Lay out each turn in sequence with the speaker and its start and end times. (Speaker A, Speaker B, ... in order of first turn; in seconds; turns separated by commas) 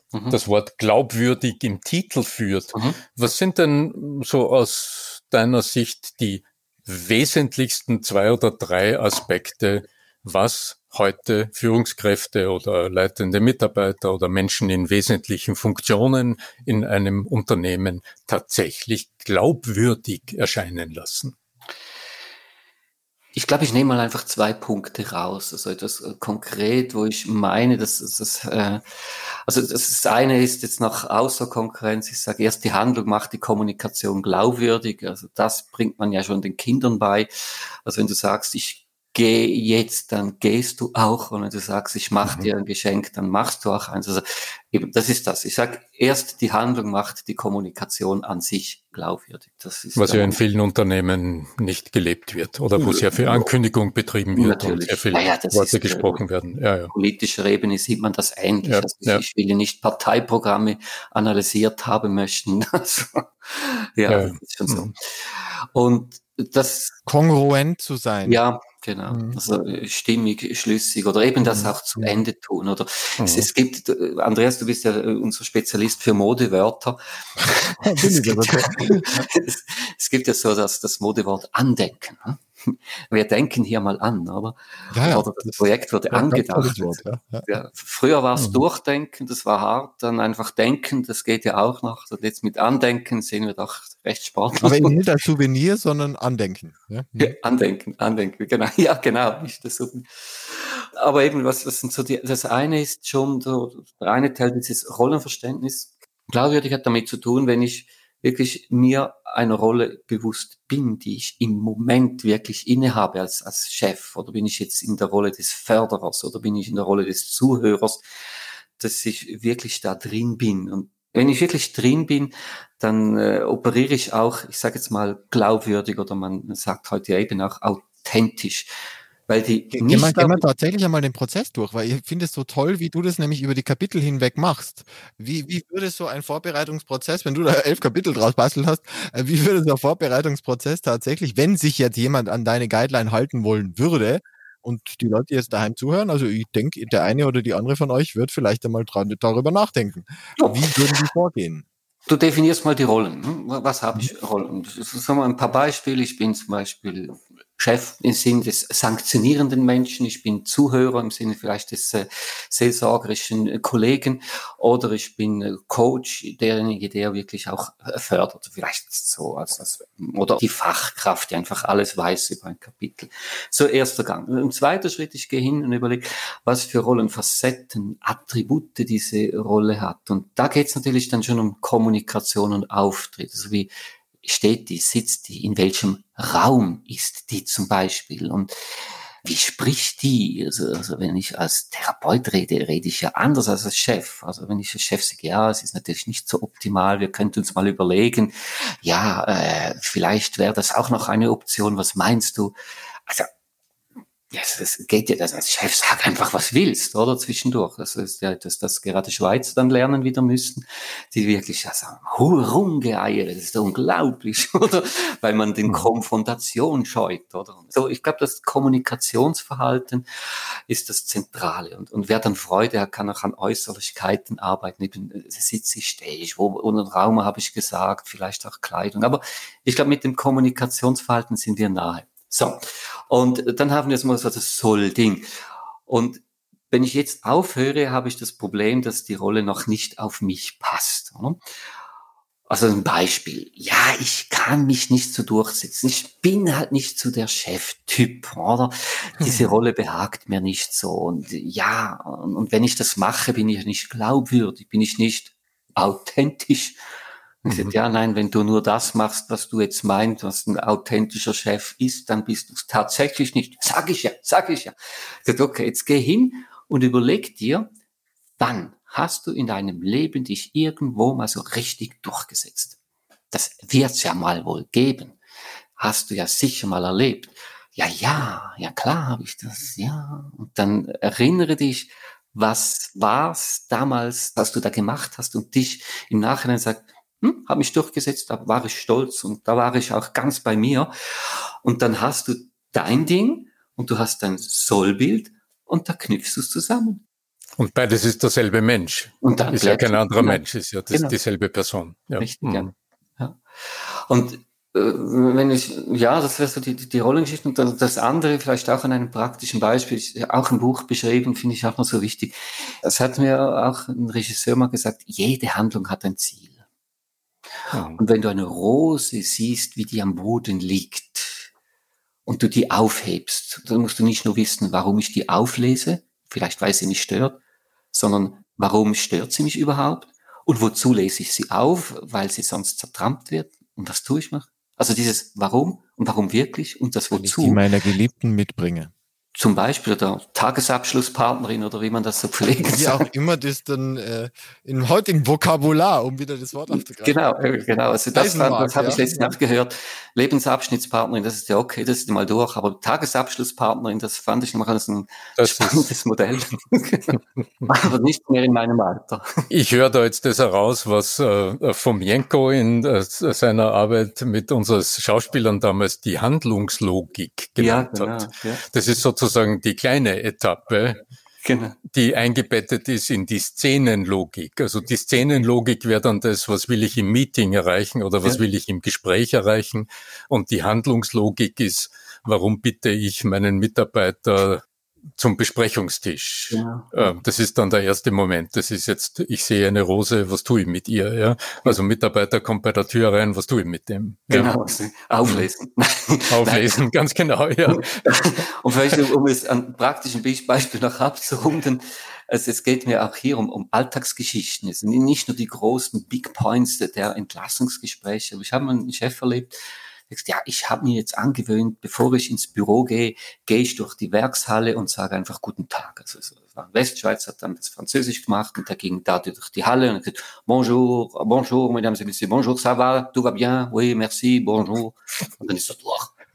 Speaker A: 0.3-21.4, Speaker B: 23.4-28.8, Speaker B: 29.5-50.4, Speaker A: 42.2-42.5, Speaker A: 50.0-56.9, Speaker B: 52.8-53.5, Speaker B: 54.3-56.2, Speaker B: 56.9-67.0, Speaker A: 58.6-59.2, Speaker A: 64.1-64.9, Speaker C: 67.1-68.4, Speaker B: 68.3-95.0, Speaker C: 69.1-69.4, Speaker C: 71.4-72.2, Speaker A: 73.2-73.5, Speaker C: 77.8-79.2, Speaker C: 84.9-87.5, Speaker A: 88.4-88.6, Speaker C: 94.6-97.4, Speaker B: 97.2-118.0, Speaker B: 118.8-128.7, Speaker B: 129.3-130.4, Speaker C: 129.7-151.7, Speaker B: 150.4-151.0, Speaker B: 152.1-183.7, Speaker B: 184.2-188.5, Speaker B: 189.2-202.6, Speaker B: 204.3-220.1, Speaker B: 220.7-235.2, Speaker B: 235.9-241.4, Speaker B: 242.5-256.8, Speaker B: 257.4-267.7, Speaker A: 257.5-257.7, Speaker B: 268.4-272.8, Speaker B: 273.3-275.2, Speaker B: 275.8-297.0, Speaker A: 297.6-302.7, Speaker B: 299.2-301.2, Speaker B: 302.2-303.4, Speaker B: 304.1-316.6, Speaker A: 317.7-318.0, Speaker B: 318.0-321.5, Speaker B: 322.3-327.4, Speaker B: 327.9-337.6, Speaker C: 337.1-338.9, Speaker B: 339.4-343.1, Speaker C: 342.7-347.2, Speaker B: 346.7-359.2, Speaker C: 348.1-349.4, Speaker A: 355.4-355.9, Speaker A: 359.5-371.0, Speaker B: 367.6-368.6, Speaker B: 371.4-371.8, Speaker A: 371.9-384.6, Speaker A: 385.2-394.6, Speaker B: 386.5-387.2, Speaker B: 394.3-396.8, Speaker A: 396.3-398.4, Speaker B: 397.7-409.6, Speaker B: 410.1-426.1